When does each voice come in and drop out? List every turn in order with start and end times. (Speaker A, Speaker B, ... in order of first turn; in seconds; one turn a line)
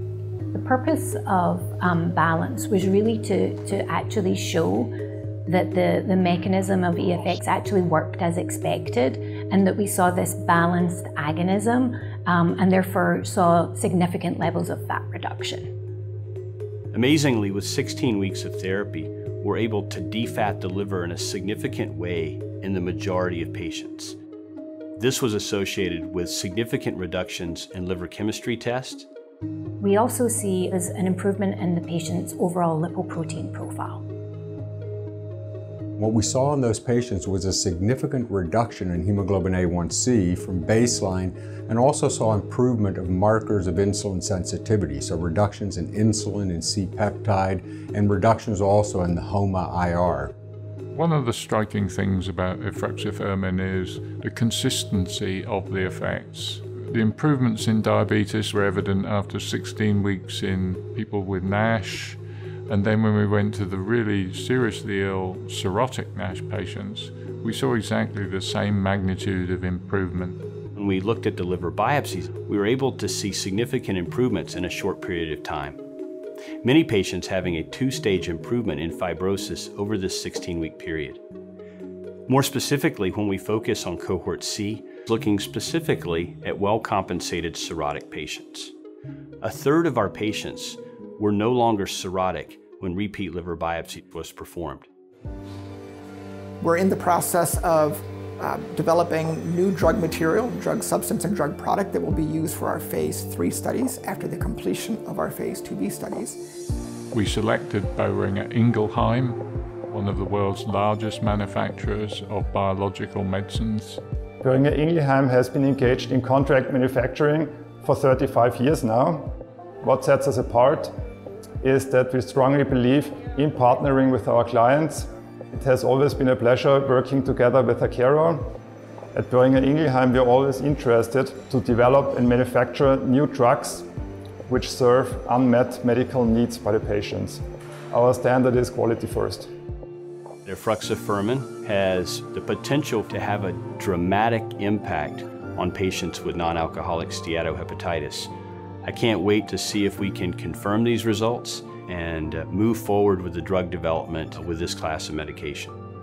Speaker A: 0.5-15.7
Speaker B: 16.9-24.1
Speaker B: 25.0-29.0
Speaker A: 29.8-34.0
Speaker C: 36.0-50.3
Speaker D: 50.9-70.4
Speaker B: 70.8-75.8
Speaker B: 76.6-81.2
Speaker B: 82.3-88.7
Speaker B: 89.4-94.8
Speaker E: 96.6-106.4
Speaker D: 107.1-114.0
Speaker F: 114.4-121.0
Speaker F: 121.6-128.5
Speaker F: 129.1-133.9
Speaker F: 134.5-139.5
Speaker B: 140.4-148.3
Speaker B: 148.8-155.7